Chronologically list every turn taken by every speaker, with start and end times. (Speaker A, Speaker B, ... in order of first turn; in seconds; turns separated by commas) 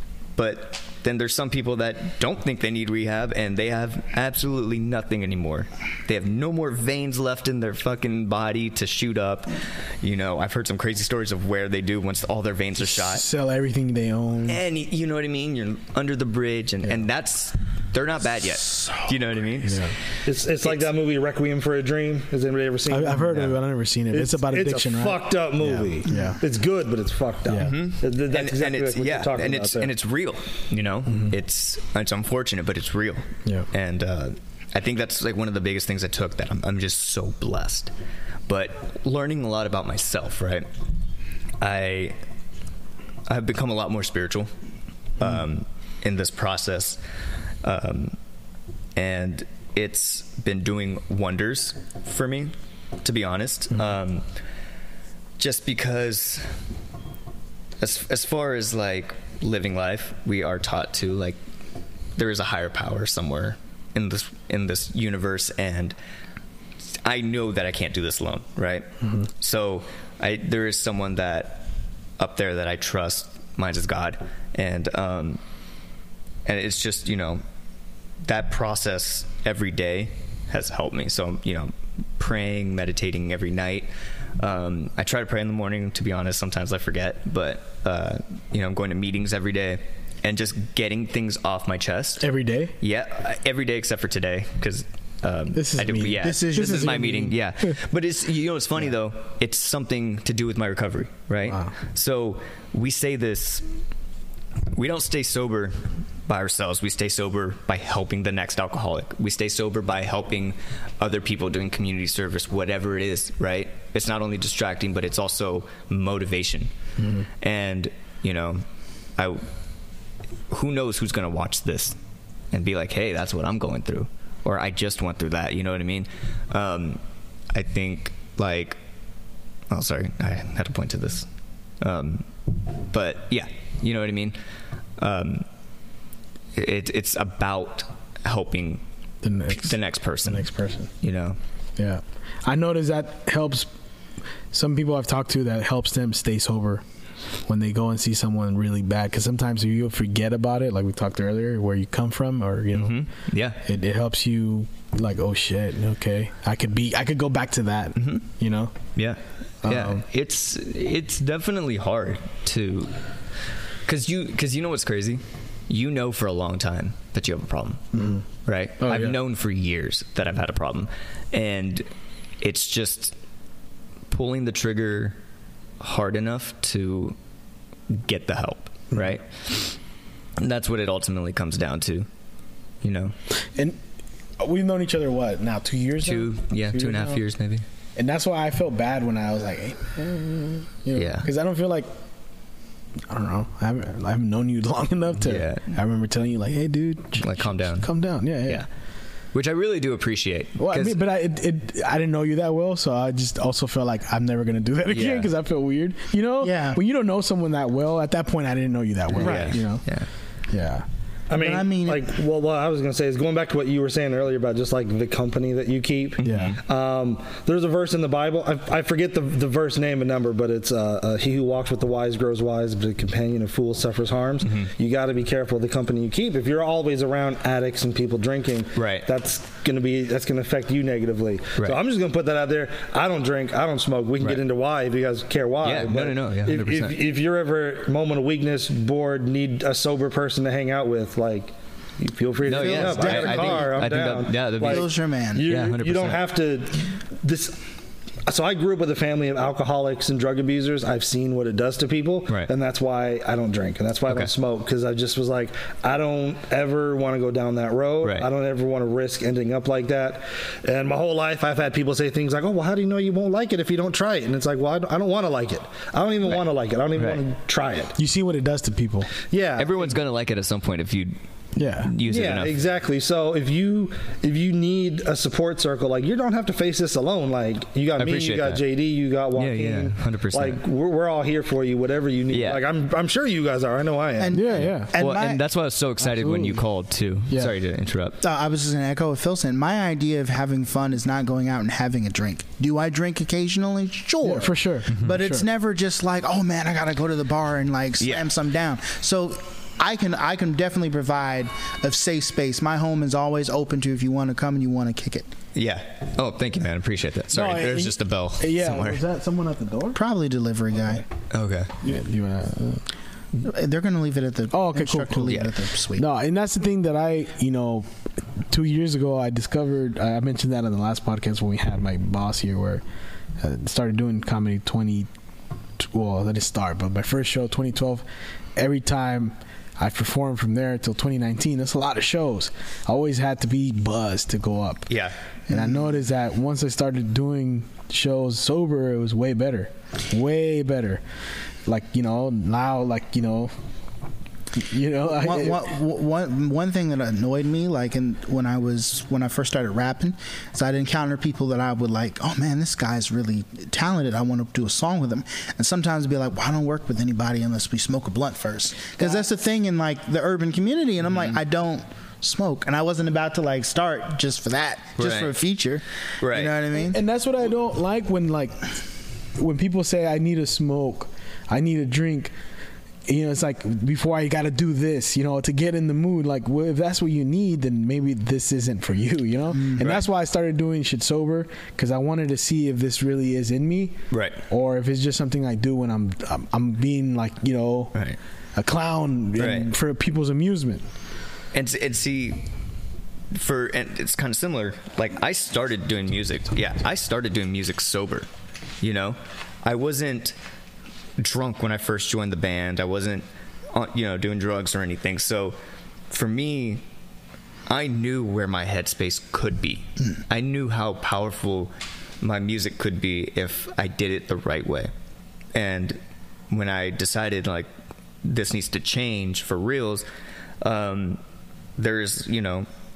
Speaker A: 0.4-13.2, Speaker B: 12.8-14.6, Speaker A: 14.4-19.9, Speaker B: 19.6-19.9, Speaker C: 20.2-23.6, Speaker A: 20.6-20.9, Speaker B: 22.9-26.4, Speaker C: 24.1-29.9, Speaker B: 27.4-27.7, Speaker A: 27.6-37.9, Speaker B: 31.1-31.3, Speaker A: 38.5-40.7, Speaker A: 41.6-42.2, Speaker A: 43.3-44.5, Speaker A: 45.2-47.0, Speaker A: 47.6-48.1, Speaker A: 49.0-54.2, Speaker A: 55.4-56.5, Speaker A: 57.8-61.4, Speaker A: 62.1-66.0, Speaker A: 67.0-71.7, Speaker A: 72.2-75.4, Speaker A: 76.5-77.4, Speaker A: 78.2-92.3, Speaker B: 92.2-92.7, Speaker A: 92.8-103.7, Speaker B: 95.5-97.7, Speaker D: 96.2-97.0, Speaker B: 101.5-101.7, Speaker A: 104.7-116.7, Speaker B: 117.0-117.3, Speaker A: 117.4-118.6, Speaker A: 119.2-119.4, Speaker A: 120.5-122.0, Speaker A: 122.5-127.0, Speaker A: 127.5-128.8, Speaker A: 129.7-131.3, Speaker A: 131.8-132.3, Speaker A: 132.8-134.4, Speaker A: 135.0-135.5, Speaker A: 136.5-138.8, Speaker B: 139.2-140.9, Speaker A: 139.5-140.5, Speaker A: 141.0-141.4, Speaker B: 141.8-143.7, Speaker B: 144.5-146.8, Speaker B: 147.4-153.0, Speaker A: 152.7-153.6, Speaker B: 153.6-158.7, Speaker A: 157.9-158.2, Speaker A: 158.9-162.9, Speaker B: 159.6-160.0, Speaker A: 163.9-167.9, Speaker B: 167.9-168.2, Speaker A: 168.4-171.9, Speaker B: 168.8-169.2, Speaker A: 172.4-173.2, Speaker A: 174.1-175.2, Speaker A: 175.8-177.2, Speaker A: 177.9-179.8, Speaker A: 180.4-182.1, Speaker A: 182.8-183.1, Speaker B: 184.4-187.2, Speaker A: 186.0-187.6, Speaker B: 187.9-191.9, Speaker A: 190.9-191.3, Speaker B: 193.1-198.6, Speaker A: 195.2-195.7, Speaker A: 197.2-197.9, Speaker A: 199.3-201.0, Speaker B: 200.6-209.8, Speaker A: 204.9-205.3, Speaker D: 206.4-206.8, Speaker A: 209.1-210.1, Speaker D: 209.2-209.5, Speaker B: 210.5-210.9, Speaker C: 211.3-247.6, Speaker D: 211.3-212.1, Speaker A: 216.2-216.6, Speaker B: 216.2-216.6, Speaker A: 224.4-224.7, Speaker A: 228.7-229.1, Speaker A: 235.6-237.0, Speaker A: 242.4-244.9, Speaker D: 242.6-243.8, Speaker D: 244.6-245.5, Speaker A: 245.4-246.2, Speaker C: 248.2-267.9, Speaker A: 254.1-254.3, Speaker A: 258.0-258.3, Speaker A: 266.9-267.2, Speaker B: 267.9-269.1, Speaker C: 269.3-270.0, Speaker A: 269.6-271.1, Speaker B: 271.6-271.9, Speaker A: 271.8-272.6, Speaker C: 272.0-284.5, Speaker A: 278.0-278.6, Speaker A: 279.4-280.6, Speaker A: 282.3-282.6, Speaker D: 284.2-285.4, Speaker B: 284.3-284.9, Speaker A: 284.6-288.2, Speaker B: 286.0-286.6, Speaker D: 288.2-305.3, Speaker B: 294.2-295.4, Speaker A: 298.0-298.3, Speaker A: 305.5-309.0, Speaker B: 307.3-310.0, Speaker D: 309.9-311.0, Speaker A: 311.3-311.8, Speaker B: 311.8-312.9, Speaker D: 313.4-316.1, Speaker B: 314.5-317.9, Speaker B: 318.5-322.8, Speaker B: 323.4-325.1, Speaker B: 325.8-328.0, Speaker B: 328.6-334.9, Speaker A: 334.9-335.1, Speaker B: 335.5-341.0, Speaker D: 335.5-335.8, Speaker B: 341.6-343.5, Speaker B: 344.6-345.7, Speaker D: 345.2-367.0, Speaker A: 365.0-365.3, Speaker A: 366.2-366.5, Speaker B: 366.7-368.6, Speaker B: 369.4-372.3, Speaker B: 373.1-384.0, Speaker D: 379.5-379.9, Speaker A: 384.1-384.4, Speaker B: 384.5-387.9, Speaker B: 388.6-390.8, Speaker A: 389.4-389.7, Speaker A: 391.5-392.4, Speaker A: 393.3-398.3, Speaker A: 398.8-400.4, Speaker A: 401.2-405.6, Speaker A: 406.1-406.8, Speaker A: 407.7-414.9, Speaker A: 415.5-416.0, Speaker A: 416.5-417.7, Speaker A: 418.2-420.0, Speaker A: 420.6-421.2, Speaker A: 421.8-422.7